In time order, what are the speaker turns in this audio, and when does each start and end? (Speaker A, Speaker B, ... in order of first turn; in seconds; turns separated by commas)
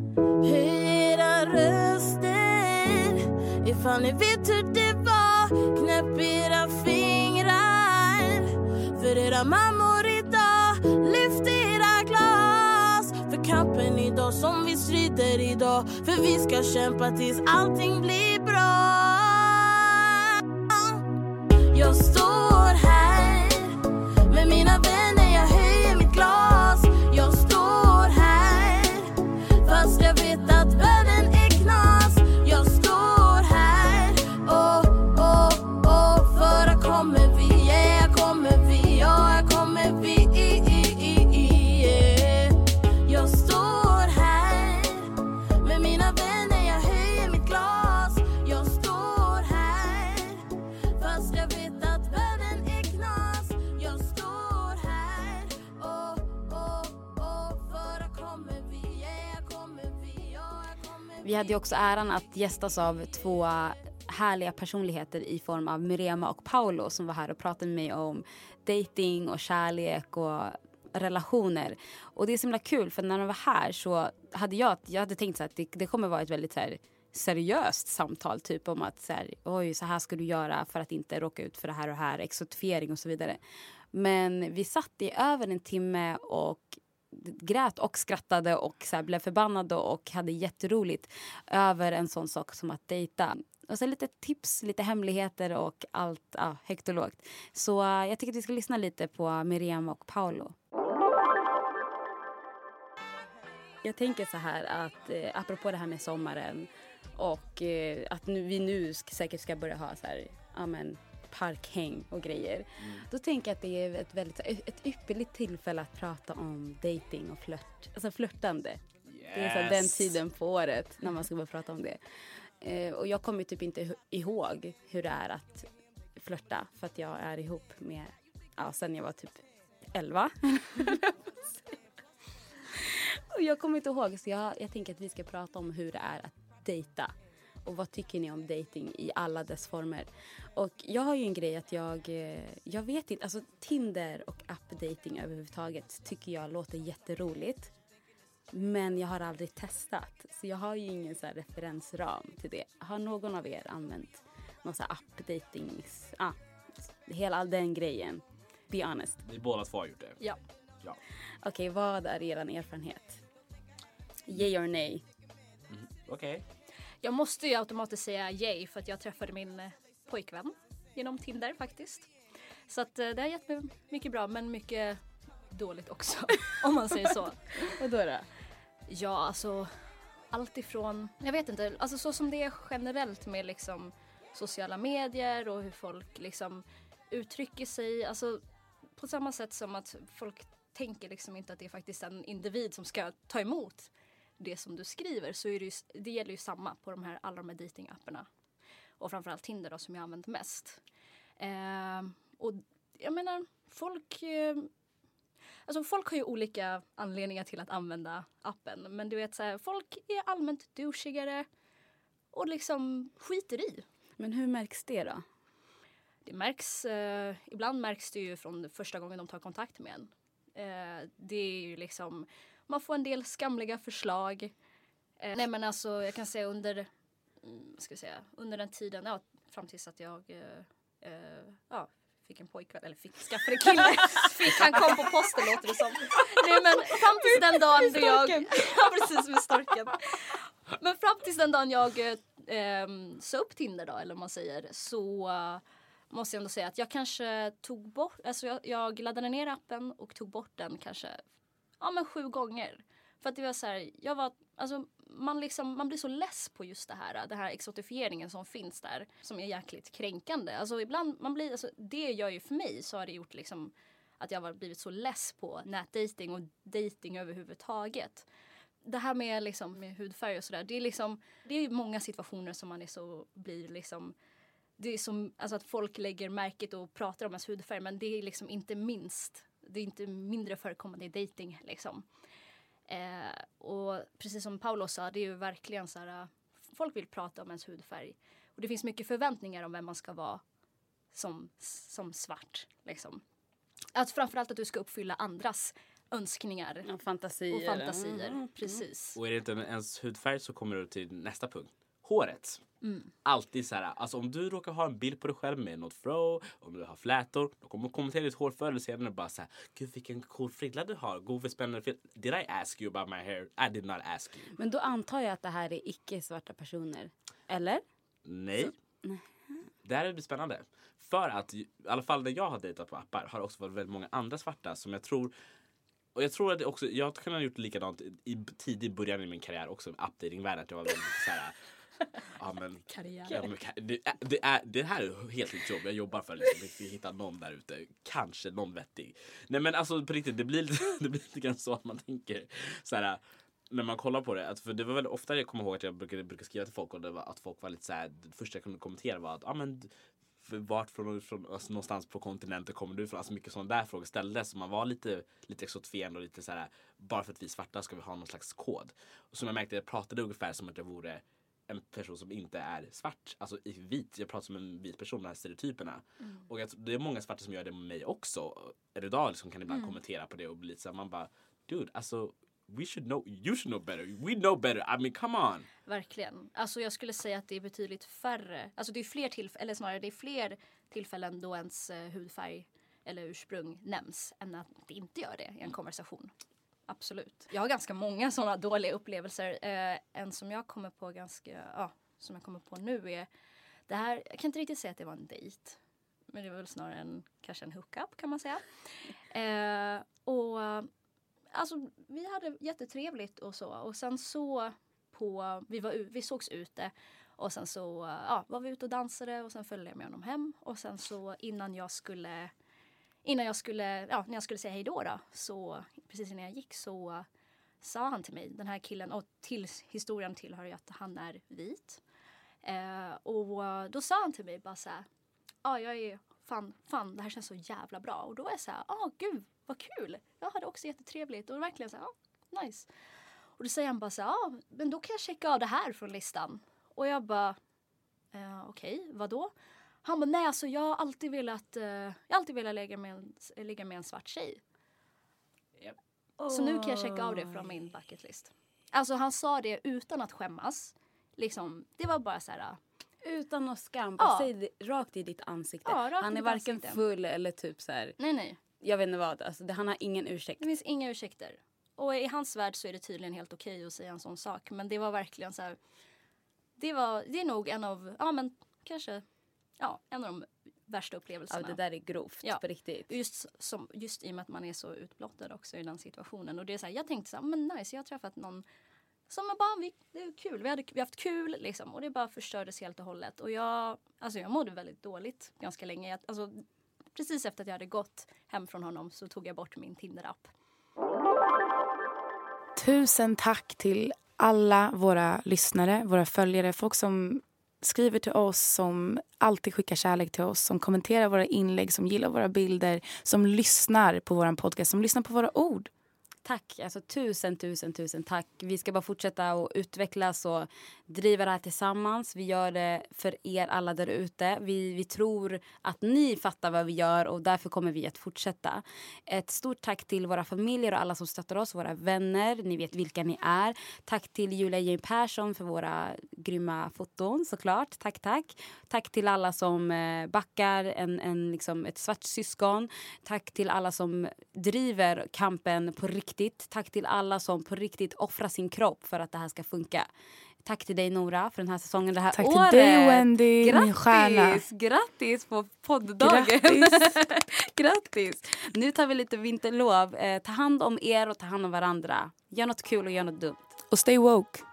Speaker A: 0.4-20.1, Speaker A: 20.7-21.0, Speaker A: 21.7-61.5, Speaker B: 61.2-83.4, Speaker B: 83.9-100.5, Speaker B: 103.8-118.8, Speaker C: 112.8-113.0, Speaker C: 119.1-120.2, Speaker B: 119.3-122.0, Speaker B: 122.6-131.1, Speaker B: 133.3-137.1, Speaker B: 137.7-147.7, Speaker B: 148.5-156.4, Speaker B: 157.0-159.2, Speaker C: 159.2-160.2, Speaker B: 161.4-163.2, Speaker B: 164.3-165.1, Speaker C: 165.7-166.4, Speaker D: 167.0-172.1, Speaker D: 172.7-175.0, Speaker D: 175.5-177.8, Speaker B: 177.8-178.3, Speaker D: 178.9-179.7, Speaker D: 180.3-188.4, Speaker D: 188.9-198.3, Speaker D: 199.0-200.8, Speaker D: 201.4-204.7, Speaker D: 205.7-211.5, Speaker D: 212.3-213.8, Speaker B: 214.2-215.2, Speaker D: 216.2-224.5, Speaker D: 225.2-226.9, Speaker D: 227.4-251.2, Speaker B: 237.8-238.6, Speaker D: 251.8-268.3, Speaker D: 268.8-274.1, Speaker D: 274.8-282.1, Speaker D: 282.9-290.4, Speaker D: 291.1-293.2, Speaker D: 293.9-296.9, Speaker B: 296.9-298.8, Speaker D: 297.5-299.2, Speaker C: 299.2-302.6, Speaker D: 302.8-303.1, Speaker C: 303.2-314.5, Speaker B: 314.6-317.8, Speaker C: 318.3-318.7, Speaker C: 319.9-325.3, Speaker C: 326.1-331.5, Speaker C: 332.4-375.7, Speaker D: 332.9-333.5, Speaker D: 369.7-370.0, Speaker D: 375.9-386.3, Speaker D: 386.9-393.3, Speaker D: 393.9-395.8, Speaker D: 396.3-398.8, Speaker D: 399.3-400.9, Speaker D: 401.5-412.5, Speaker D: 413.2-417.3, Speaker D: 417.8-422.0, Speaker D: 422.6-425.1, Speaker D: 425.6-432.9, Speaker D: 433.6-437.6, Speaker D: 438.3-439.5, Speaker D: 440.0-444.6, Speaker B: 446.4-447.6, Speaker D: 446.5-452.8, Speaker B: 453.2-458.2, Speaker D: 454.2-454.5, Speaker D: 455.9-457.0, Speaker D: 458.2-458.6, Speaker B: 458.8-460.6, Speaker D: 460.6-465.8, Speaker D: 466.8-469.2, Speaker D: 469.8-471.8, Speaker B: 471.5-473.1, Speaker D: 472.4-478.6, Speaker D: 479.3-490.5, Speaker E: 492.8-505.9, Speaker B: 506.4-540.1, Speaker B: 540.6-553.7, Speaker E: 542.3-544.6, Speaker E: 546.2-547.2, Speaker E: 553.9-554.6